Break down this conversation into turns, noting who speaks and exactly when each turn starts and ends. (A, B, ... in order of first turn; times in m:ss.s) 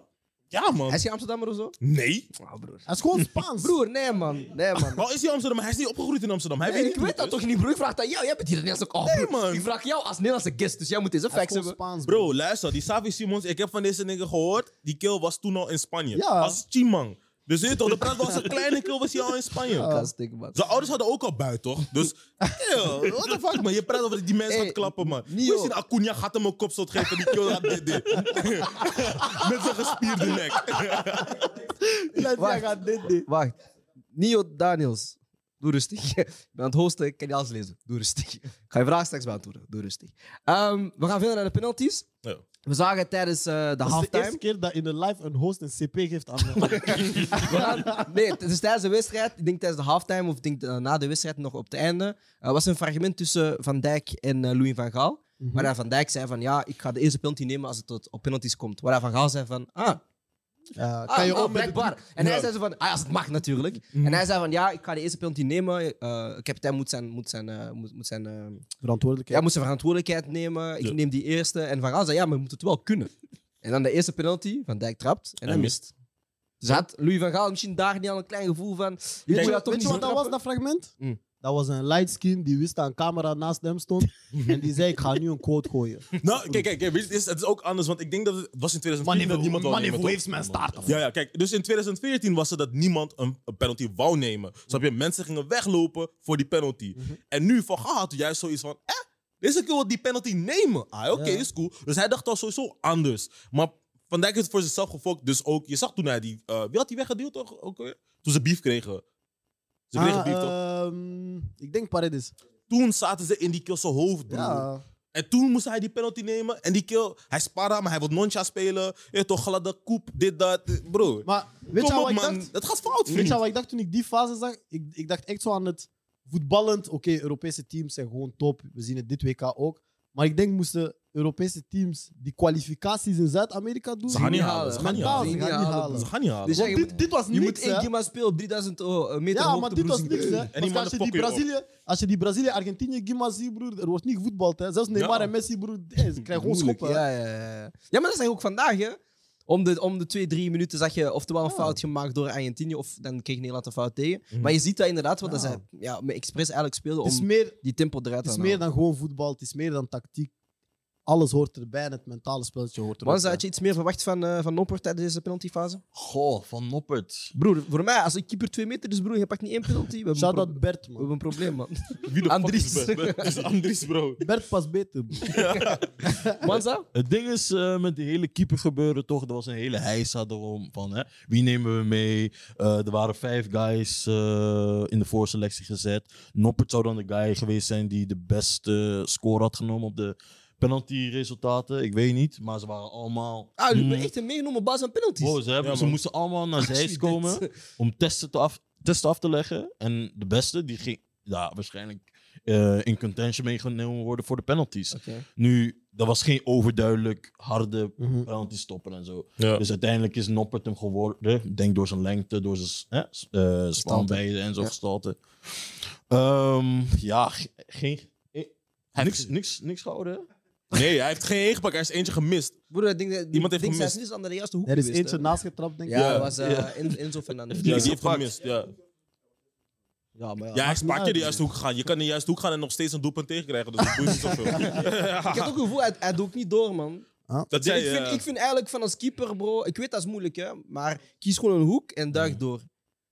0:00.5-0:01.0 A
0:00.9-0:01.8 B
0:01.8-0:02.3 A
0:02.4-0:02.8 B
0:02.9-0:03.8 C
0:03.6-0:05.0 B
0:04.9-0:07.4 A
0:06.6-0:11.8 B
0:09.0-0:09.7 A
0:11.3-0:12.3 C
0:12.0-0:19.9 A
0:16.1-0:16.6 C
0:19.7-0:20.6 B
0:19.8-0:20.1 C
0:20.5-0:31.3 A
0:24.5-0:25.7 B
0:32.0-0:33.3 C
0:32.2-0:33.5 B
0:34.1-0:42.0 B
0:42.6-0:44.4 B
0:43.8-0:48.1 C
0:46.6-1:00.0 B
0:55.4-0:55.7 C
1:00.8-1:02.0 C
1:01.1-1:08.6 B
1:02.1-1:02.5 A
1:03.9-1:04.2 A
1:08.8-1:09.4 C
1:09.3-1:15.9 B
1:15.4-1:15.8 A
1:16.6-1:20.4 B
1:19.3-1:26.6 C
1:19.3-1:20.1 A
1:24.3-1:24.6 A
1:26.2-1:30.2 A
1:29.0-1:30.9 C
1:30.3-1:31.0 D
1:30.8-1:49.0 A
1:41.1-1:41.5 C
1:49.9-1:50.5 A
1:49.9-1:52.3 C
1:52.7-2:03.4 A
1:54.3-1:54.8 C
2:01.2-2:02.5 C
2:03.0-2:17.9 C
2:14.1-2:15.4 A
2:14.1-2:20.5 B
2:15.9-2:16.8 A
2:19.3-2:27.0 C
2:20.5-2:21.4 A
2:24.9-2:25.3 A
2:26.3-2:38.6 B
2:31.4-2:31.8 C
2:34.3-2:34.6 A
2:35.2-2:35.6 C
2:37.0-2:37.6 C
2:38.2-2:40.3 C
2:41.0-2:43.4 C
2:43.0-2:45.8 B
2:45.9-2:47.3 D
2:47.3-2:53.3 B
2:50.1-2:51.1 C
2:52.0-2:54.2 A
2:54.2-2:55.4 C
2:55.2-2:55.8 A
2:55.3-2:55.6 B
2:56.1-2:56.6 C
2:56.4-2:56.9 B
2:56.9-3:14.1 D
3:13.6-3:15.4 B
3:15.2-3:40.2 D
3:15.6-3:16.0 A
3:16.6-3:17.5 B
3:24.9-3:25.2 B
3:28.0-3:28.3 C
3:29.4-3:29.6 A
3:33.8-3:34.7 B
3:39.0-3:39.3 A
3:40.7-3:42.6 A
3:42.7-3:45.3 B
3:43.3-3:44.0 A
3:44.6-3:46.3 C
3:45.9-3:48.0 B
3:45.9-3:46.3 A
3:46.4-3:48.3 D
3:47.6-3:48.7 A
3:50.2-3:50.6 B
3:50.5-3:51.4 C
3:50.5-3:55.6 A
3:54.5-4:02.7 B
3:57.5-3:58.2 A